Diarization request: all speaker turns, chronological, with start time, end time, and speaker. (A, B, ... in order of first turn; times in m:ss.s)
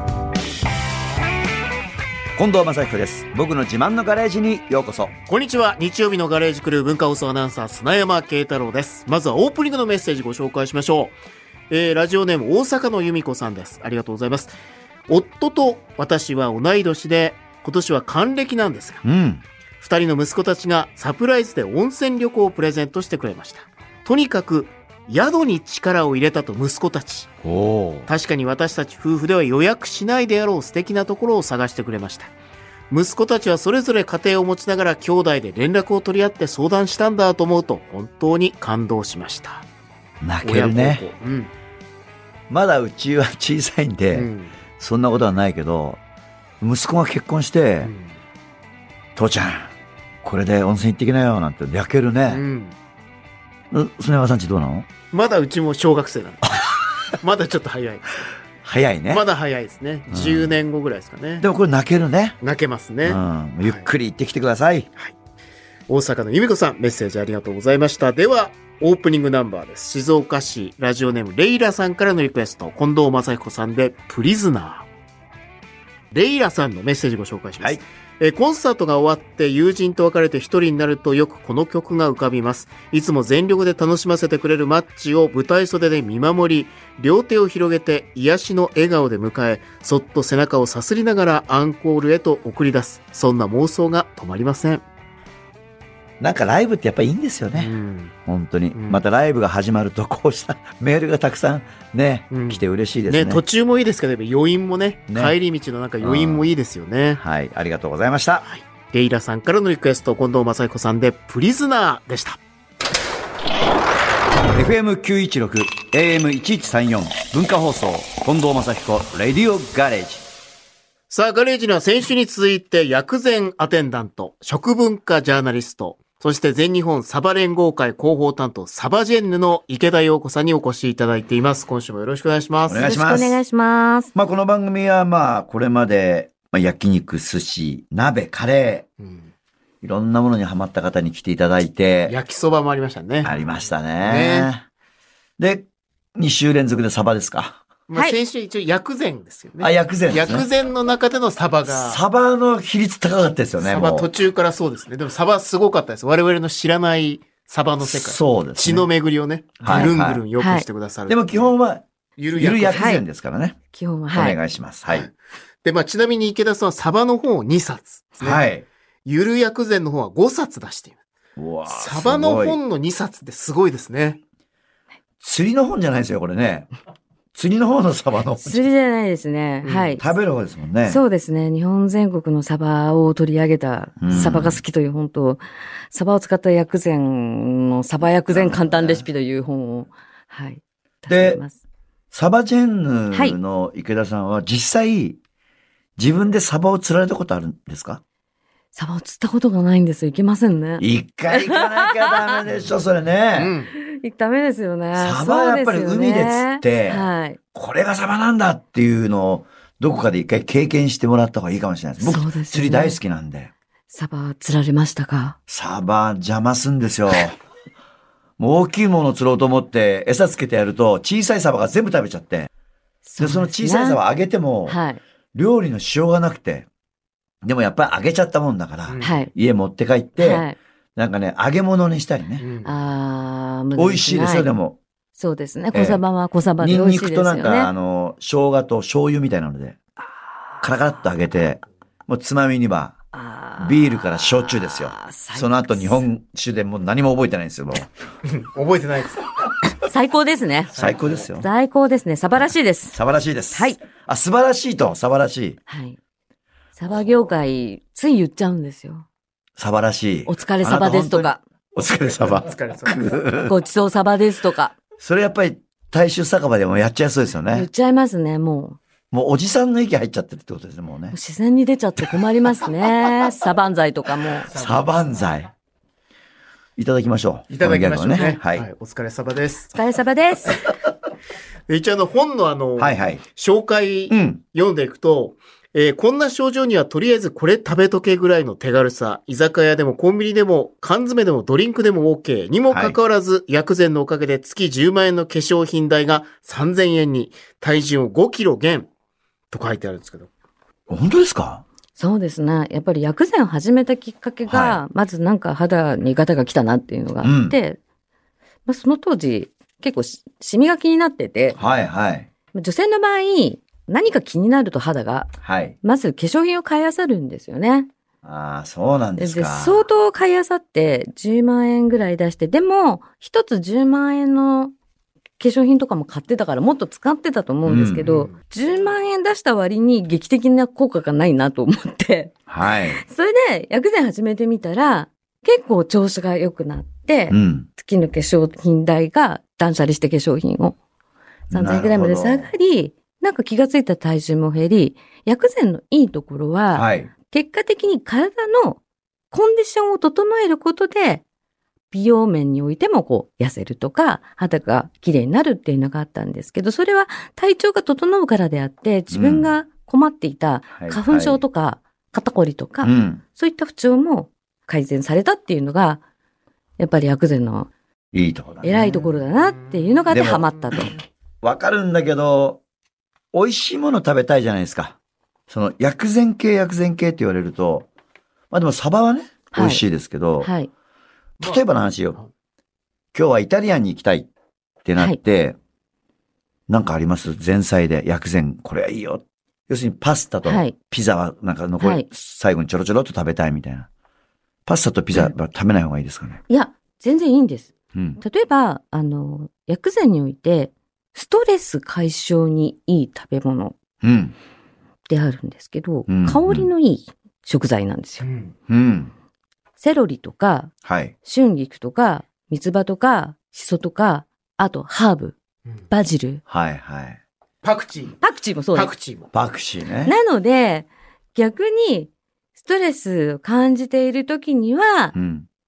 0:02.4-0:05.1 A
0:05.3-0:11.2 B
0:11.7-0:14.5 B
0:15.1-0:19.0 B
0:19.0-0:19.4 A
0:19.8-0:27.3 B
0:27.4-0:28.1 A
0:28.1-0:32.3 B
0:32.9-0:39.7 B
0:40.2-0:41.0 A
0:40.4-0:41.5 B
0:42.5-0:46.0 A
0:44.1-0:44.6 B
0:46.6-0:47.9 A
0:47.8-0:48.2 B
0:49.2-0:52.4 A
0:52.3-0:52.8 B
0:53.7-0:54.9 A
0:55.1-0:58.3 B
0:58.6-0:59.2 A
0:59.1-1:01.5 B
1:00.1-1:00.5 A
1:01.4-1:02.4 A
1:02.4-1:03.9 B
1:03.0-1:04.9 A
1:05.9-1:14.8 B
1:16.1-1:34.8 B
1:36.2-1:37.7 A
1:37.5-1:38.1 B
1:38.3-1:43.4 A
1:38.8-1:39.0 B
1:42.3-1:47.2 B
1:45.1-1:45.4 A
1:46.0-1:46.5 A
1:47.2-1:48.4 A
1:48.5-1:52.4 B
1:54.5-2:00.2 A
2:01.1-2:12.9 B
2:12.7-2:13.4 A
2:12.8-2:14.1 C
2:14.2-2:18.9 A
2:19.0-2:19.3 B
2:19.8-2:22.2 A
2:22.1-2:23.3 B
2:23.2-2:24.6 A
2:24.0-2:24.5 B
2:25.4-2:27.6 A
2:27.9-2:32.0 B
2:29.6-2:30.5 A
2:31.7-2:34.1 A
2:33.6-2:41.5 B
2:37.8-2:38.9 A
2:39.6-2:40.2 A
2:39.7-2:40.6 C
2:41.1-2:43.6 A
2:42.2-2:42.9 B
2:42.7-2:43.0 C
2:43.7-2:44.4 C
2:44.1-2:45.1 A
2:44.9-2:45.1 B
2:45.6-2:48.4 B
2:48.2-2:48.7 A
2:49.0-2:51.0 B
2:51.4-2:52.6 A
2:51.7-2:54.2 B
2:55.2-2:56.7 A
2:57.3-2:58.6 A
2:58.4-3:00.0 C
2:59.6-3:00.0 B
3:00.0-3:01.0 A
3:00.8-3:11.6 C
3:04.0-3:04.6 A
3:08.3-3:09.1 A
3:11.1-3:11.4 A
3:12.1-3:15.2 A
3:13.1-3:13.4 C
3:16.0-3:18.0 A
3:18.7-3:22.4 C
3:20.8-3:23.5 A
3:23.3-3:23.7 B
3:23.7-3:27.4 C
3:24.9-3:33.5 A
3:32.0-3:33.0 C
3:33.9-3:35.4 C
3:35.5-3:37.4 A
3:38.4-3:42.5 A
3:43.0-3:44.0 C
3:43.2-3:44.8 A
3:44.7-3:45.0 C
3:45.3-3:46.7 A
3:47.4-3:52.4 A
3:48.9-3:49.2 B
3:49.0-3:49.3 C
3:50.2-3:50.6 C
3:52.4-3:52.7 B
3:52.6-3:54.5 C
3:53.8-3:54.8 A
3:55.2-3:57.7 C
3:55.7-3:56.0 A
3:56.6-3:59.8 A
4:00.6-4:03.0 A
4:03.1-4:06.0 C
4:03.6-4:07.9 A
4:08.2-4:09.3 B
4:09.8-4:10.8 C
4:10.8-4:11.2 B
4:10.8-4:11.5 A
4:11.4-4:13.0 C
4:12.9-4:15.6 A
4:13.5-4:13.8 C
4:15.7-4:16.0 C
4:16.8-4:19.0 C
4:19.6-4:23.5 A
4:20.2-4:21.4 C
4:22.1-4:23.1 B
4:23.4-4:24.8 C
4:25.0-4:27.7 A
4:27.5-4:28.8 C
4:29.1-4:31.2 A
4:31.1-4:34.5 C
4:34.4-4:35.5 A
4:34.5-4:34.8 B
4:36.8-4:38.7 A
4:37.5-4:39.7 B
4:39.7-4:40.6 C
4:41.7-4:58.9 B
4:42.8-4:43.2 A
4:44.1-4:44.4 A
4:52.7-4:53.0 A
4:59.5-5:00.3 B
5:00.9-5:01.6 A
5:02.0-5:07.8 C
5:04.5-5:04.8 A
5:07.2-5:07.6 A
5:08.7-5:11.6 C
5:11.6-5:12.3 A
5:12.5-5:15.3 C
5:15.4-5:15.8 A
5:15.8-5:17.9 C
5:18.2-5:19.8 A
5:19.2-5:24.7 C
5:25.4-5:32.4 C
5:27.7-5:28.0 A
5:28.0-5:28.3 B
5:32.5-5:33.0 A
5:32.9-5:40.8 C
5:37.3-5:37.7 A
5:41.5-5:42.5 A
5:41.5-5:48.8 C
5:46.7-5:47.1 A
5:49.3-5:51.2 C
5:51.9-6:06.0 C
5:59.1-5:59.5 A
6:00.8-6:01.4 A
6:02.8-6:03.2 A
6:06.8-6:07.7 C
6:08.1-6:08.8 A
6:08.6-6:11.0 C
6:10.1-6:10.9 A
6:11.4-6:12.6 A
6:13.3-6:15.0 A
6:15.5-6:17.9 A
6:18.5-6:20.5 A
6:19.5-6:19.8 C
6:20.4-6:20.7 C
6:21.4-6:22.2 A
6:23.1-6:24.3 A
6:24.8-6:25.6 A
6:26.7-6:33.9 A
6:30.4-6:30.8 C
6:31.8-6:32.1 C
6:34.7-6:36.4 A
6:36.5-6:43.8 C
6:37.9-6:38.2 A
6:44.0-6:44.3 A
6:45.1-6:48.2 C
6:46.1-6:46.7 A
6:48.2-6:48.5 B
6:48.7-6:49.1 A
6:49.8-6:50.7 C
6:50.8-6:51.1 A
6:51.2-6:55.4 C
6:55.9-6:56.4 C
6:56.5-6:57.2 A
6:57.6-6:58.2 B
6:58.2-6:58.9 C
6:58.7-6:59.3 B
6:59.3-7:00.1 A
7:00.0-7:05.1 C
7:05.1-7:05.5 A